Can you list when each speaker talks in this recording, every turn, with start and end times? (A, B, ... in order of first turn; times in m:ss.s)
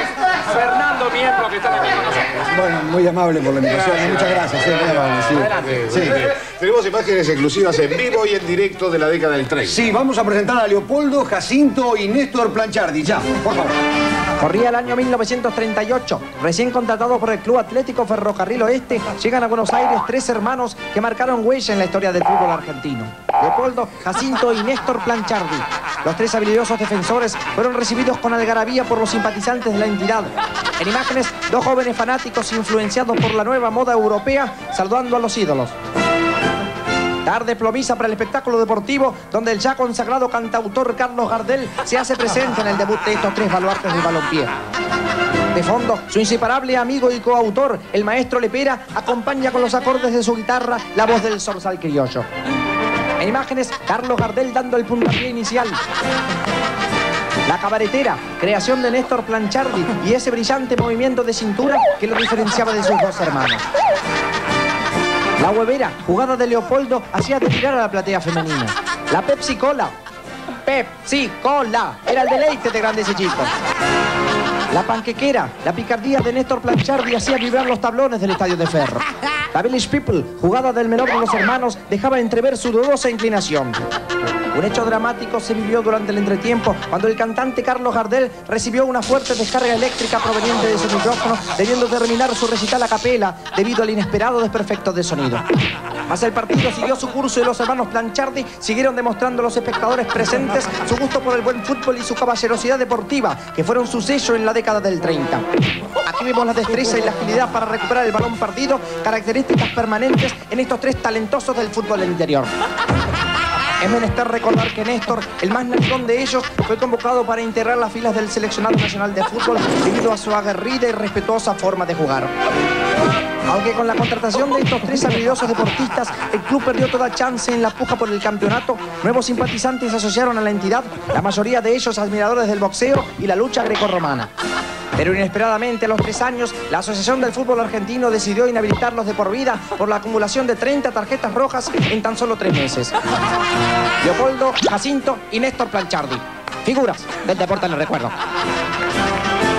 0:00.3-0:02.4 A
0:02.4-0:06.3 B
0:03.9-0:05.5 A
0:05.2-0:09.8 C
0:09.6-0:13.8 B
0:14.4-0:35.7 D
0:37.2-0:44.5 D
0:45.5-0:52.3 D
0:53.2-0:55.8 D
0:57.5-1:03.6 D
1:05.4-1:09.9 D
1:10.6-1:13.5 D
1:14.7-1:23.8 D
1:24.5-1:35.5 D
1:36.1-1:45.5 D
1:46.0-1:52.5 D
1:53.8-2:02.3 D
2:03.5-2:14.3 D
2:15.0-2:23.0 D
2:24.0-2:28.2 D